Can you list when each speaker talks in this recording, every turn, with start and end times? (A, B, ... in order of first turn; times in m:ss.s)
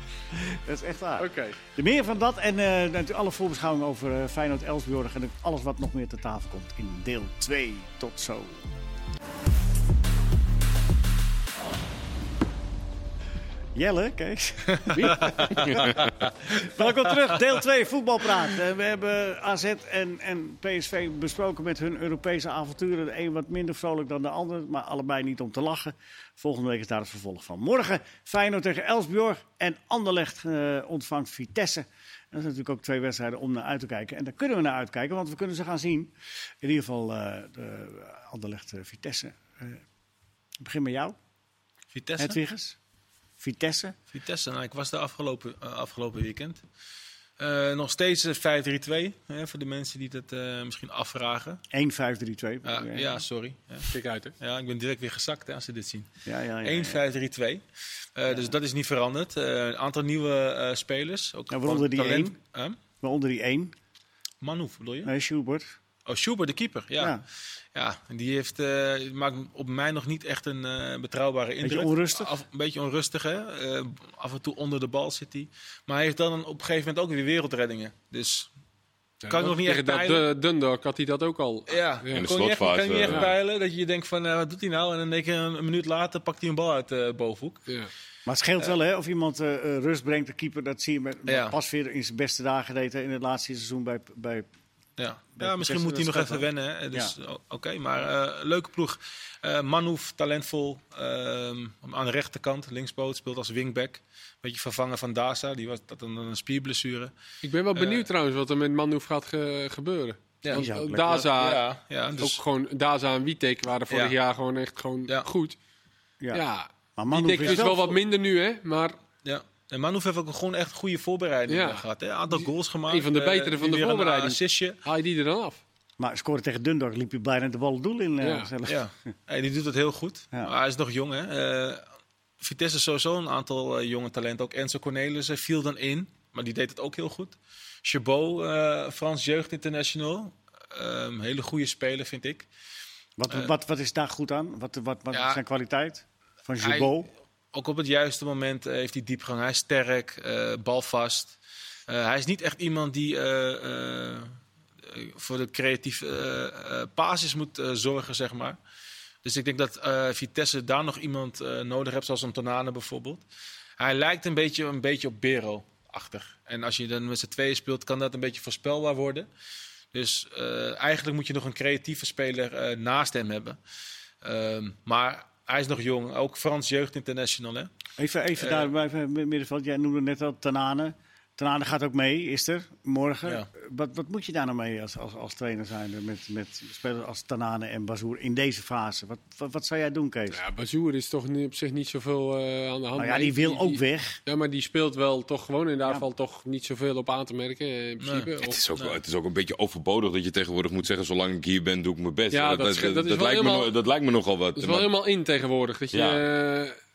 0:00.3-0:08.7 A
0:01.2-0:01.6 B
0:13.8-0:39.8 A
0:14.8-0:16.3 C
0:14.9-0:15.8 B
0:40.6-0:41.2 A
0:41.9-0:42.4 C
0:42.2-0:42.8 A
0:43.4-0:44.0 A
0:44.1-0:46.6 C
0:47.4-0:51.6 C
0:51.7-0:53.2 A
0:52.6-0:56.1 C
0:53.9-0:54.3 B
0:56.3-0:57.0 A
0:56.6-0:57.6 C
0:58.2-1:02.8 C
1:01.5-1:02.4 A
1:03.0-1:03.7 A
1:04.4-1:05.1 C
1:05.0-1:05.7 A
1:06.1-1:07.2 C
1:07.0-1:07.2 A
1:07.8-1:18.5 C
1:11.6-1:12.3 A
1:19.2-1:22.3 B
1:19.3-1:20.3 C
1:21.7-1:27.7 C
1:22.1-1:23.3 D
1:23.1-1:23.3 B
1:28.3-1:34.5 A
1:31.3-1:31.6 C
1:35.0-1:47.1 C
1:35.4-1:37.1 A
1:47.4-1:51.7 B
1:47.7-1:48.1 C
1:50.5-1:51.3 A
1:51.2-1:52.4 C
1:52.2-1:55.6 B
1:53.9-1:54.2 C
1:56.3-1:59.0 B
1:57.0-1:58.0 A
1:57.4-1:57.7 C
1:59.2-2:04.8 C
2:01.5-2:05.6 B
2:06.0-2:08.9 A
2:08.2-2:08.5 B
2:08.7-2:11.8 C
2:12.4-2:22.5 C
2:23.2-2:27.1 A
2:25.1-2:25.4 C
2:26.6-2:27.0 C
2:27.5-2:31.4 C
2:31.9-2:38.6 C
2:39.2-2:43.2 C
2:43.8-2:49.3 C
2:49.9-2:53.6 C
2:54.2-2:57.7 C
2:58.0-3:10.4 A
2:58.4-2:58.7 C
3:10.3-3:18.6 B
3:13.0-3:14.2 A
3:18.0-3:19.0 C
3:18.4-3:24.9 D
3:22.3-3:23.7 B
3:24.6-3:26.8 B
3:25.9-3:26.3 D